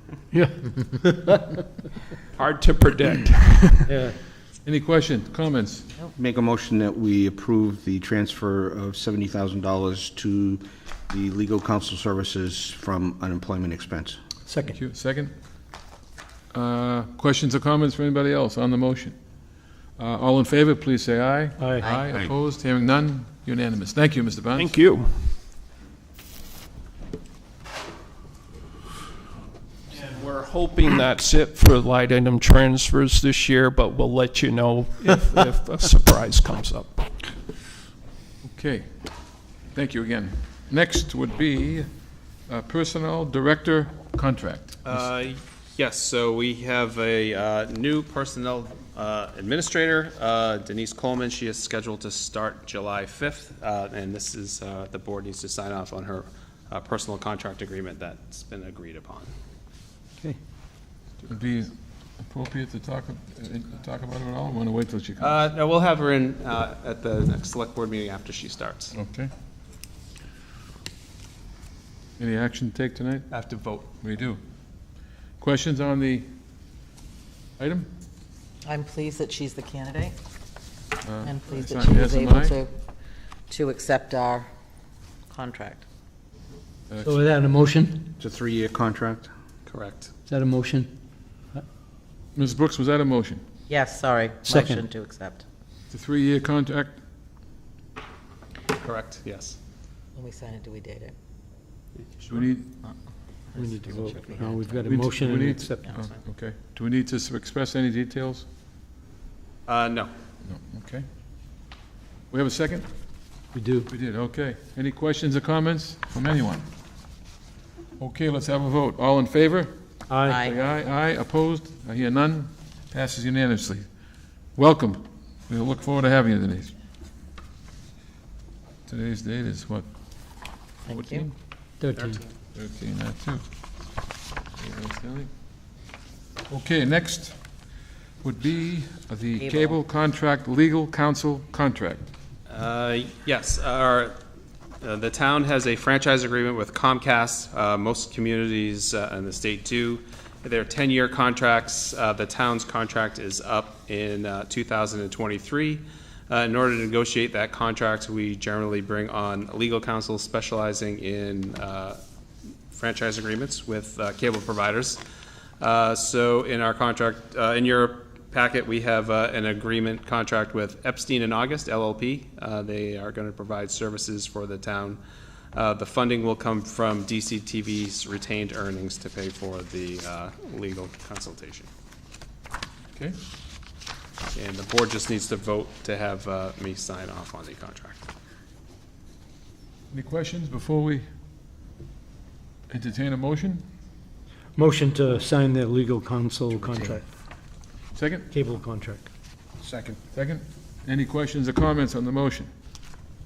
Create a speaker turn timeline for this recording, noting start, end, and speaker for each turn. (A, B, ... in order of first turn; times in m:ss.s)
0:00.3-0:00.7 A
0:02.4-0:03.9 A
0:03.9-0:04.2 B
0:04.6-0:05.9 C
0:06.2-0:14.2 D
0:14.5-0:14.8 B
0:14.6-0:15.3 C
0:16.5-0:19.2 C
0:20.0-0:24.8 C
0:21.6-0:21.9 B
0:24.6-0:25.4 A
0:29.9-0:37.4 A
0:38.4-0:39.0 C
0:39.7-0:41.9 C
0:42.5-0:45.1 C
0:44.8-0:59.3 E
1:01.3-1:05.4 C
1:05.2-1:09.0 E
1:08.9-1:09.3 C
1:12.2-1:13.3 C
1:13.3-1:13.9 E
1:14.0-1:14.4 C
1:15.4-1:16.3 C
1:17.6-1:17.9 C
1:18.6-1:20.2 F
1:21.0-1:22.6 C
1:21.2-1:22.7 F
1:23.5-1:24.5 F
1:25.3-1:25.9 F
1:27.0-1:28.1 B
1:28.2-1:29.3 D
1:29.7-1:30.1 E
1:30.3-1:30.9 B
1:32.4-1:33.4 C
1:33.7-1:35.4 F
1:34.5-1:34.9 B
1:35.9-1:37.0 C
1:38.7-1:39.6 E
1:40.2-1:41.1 F
1:42.1-1:42.4 E
1:42.3-1:42.8 C
1:43.5-1:45.3 F
1:43.5-1:45.9 B
1:44.8-1:48.4 C
1:49.7-1:50.1 E
1:50.4-1:51.1 C
1:52.3-1:52.9 C
1:53.5-1:53.9 B
1:53.9-1:56.7 C
1:58.0-1:59.7 C
2:00.1-2:00.4 B
2:00.3-2:00.6 F
2:00.3-2:03.9 C
2:04.6-2:06.7 C
2:08.9-2:09.9 C
2:10.9-2:11.3 F
2:10.9-2:11.3 C
2:11.8-2:12.2 B
2:11.9-2:12.3 E
2:12.6-2:13.4 C
2:14.6-2:15.3 C
2:16.5-2:17.4 C
2:18.2-2:22.1 C
2:19.4-2:19.8 F
2:22.5-2:24.2 E
2:24.8-2:42.0 E
2:42.7-2:45.0 E
2:45.6-2:55.0 E
2:55.5-3:01.7 E
3:04.4-3:08.0 E
3:09.9-3:11.0 C
3:12.7-3:13.6 C
3:14.6-3:17.0 B
3:16.6-3:17.0 C
3:17.9-3:18.3 C
3:18.3-3:19.1 B
3:19.6-3:20.0 D
3:20.1-3:22.5 C